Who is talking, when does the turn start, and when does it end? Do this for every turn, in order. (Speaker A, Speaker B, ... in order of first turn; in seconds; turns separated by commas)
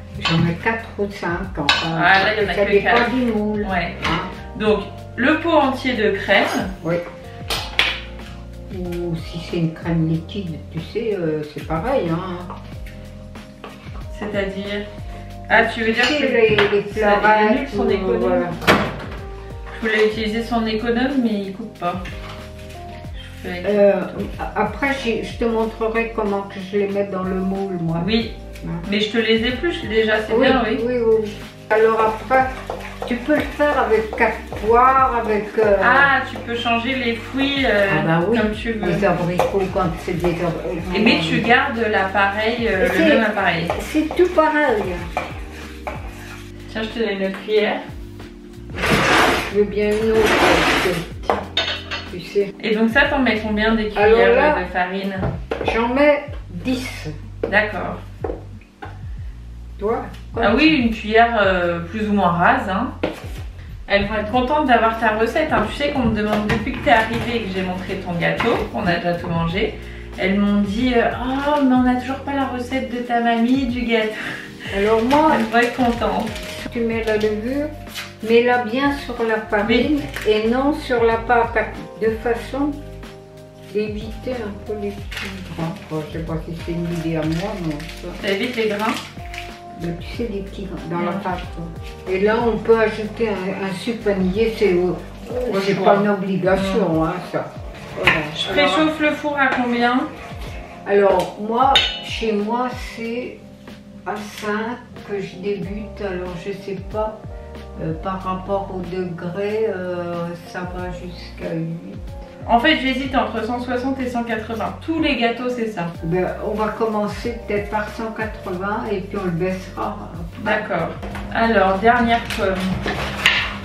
Speaker A: 0.2-4.3, Speaker B: 1.9-4.0, Speaker B: 4.5-6.7, Speaker A: 8.7-12.5, Speaker B: 14.1-14.9, Speaker B: 15.5-18.5, Speaker A: 15.5-18.5, Speaker B: 19.7-22.0, Speaker B: 23.2-24.2, Speaker A: 23.6-28.1, Speaker B: 28.0-30.8, Speaker A: 30.3-32.5, Speaker A: 33.0-36.1, Speaker B: 35.8-39.1, Speaker A: 37.9-41.5, Speaker B: 40.9-43.8, Speaker A: 42.8-45.1, Speaker B: 46.7-47.8, Speaker A: 49.5-51.4, Speaker A: 52.1-52.5, Speaker B: 52.6-55.3, Speaker A: 54.0-54.6, Speaker A: 55.6-57.1, Speaker B: 57.5-58.0, Speaker A: 59.8-60.8, Speaker B: 60.4-62.9, Speaker B: 63.9-74.2, Speaker A: 74.7-75.5, Speaker B: 75.3-76.3, Speaker A: 76.4-77.7, Speaker A: 78.2-82.8, Speaker B: 79.6-79.9, Speaker A: 83.7-88.2, Speaker B: 88.2-89.0, Speaker A: 89.8-98.9, Speaker B: 91.0-91.2, Speaker B: 95.5-96.9, Speaker B: 98.4-100.1, Speaker A: 100.8-103.4, Speaker A: 104.1-107.2, Speaker A: 107.8-112.0, Speaker B: 112.5-115.9, Speaker A: 116.0-120.7, Speaker B: 120.4-122.7